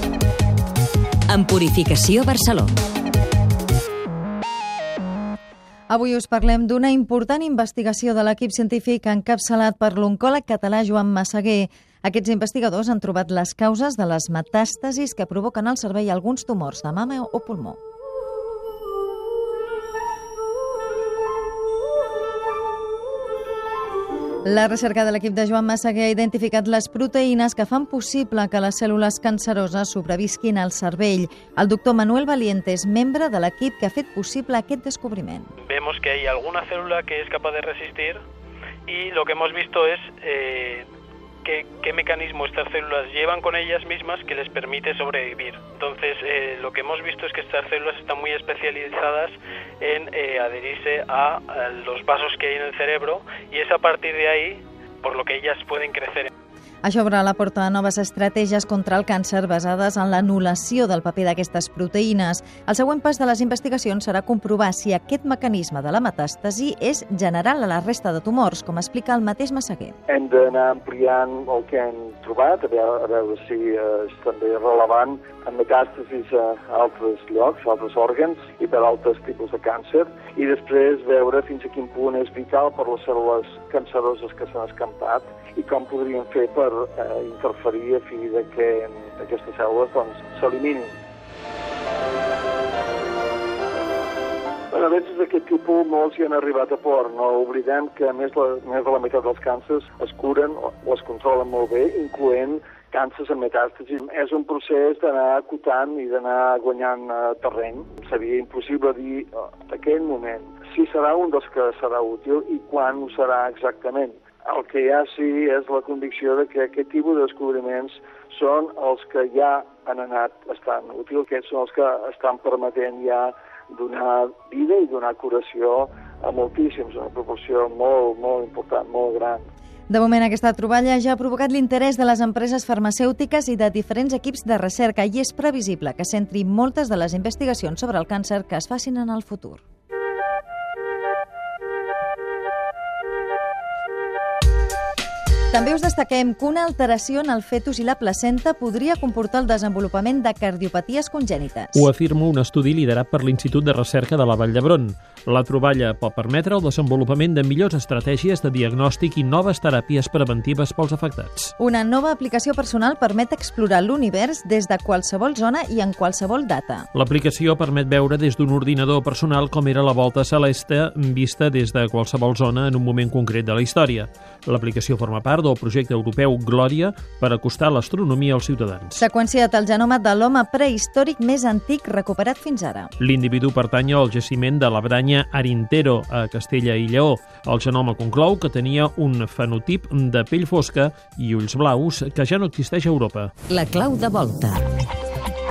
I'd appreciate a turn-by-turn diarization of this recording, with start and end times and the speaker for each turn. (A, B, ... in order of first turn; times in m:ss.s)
0:01.3-0:02.8 A
0:05.9-0:17.8 B
0:24.5-0:35.5 B
0:35.6-0:38.2 C
0:38.9-0:40.8 C
0:41.4-0:56.3 C
0:56.8-1:10.0 B
1:10.1-1:31.0 D
1:34.7-2:09.4 D
2:09.9-2:19.6 B
2:25.5-2:31.9 B
2:31.7-2:41.5 E
2:41.6-2:46.9 B
2:46.9-2:59.0 E
2:59.0-3:02.9 B
3:03.0-3:13.3 E
3:13.5-3:14.6 A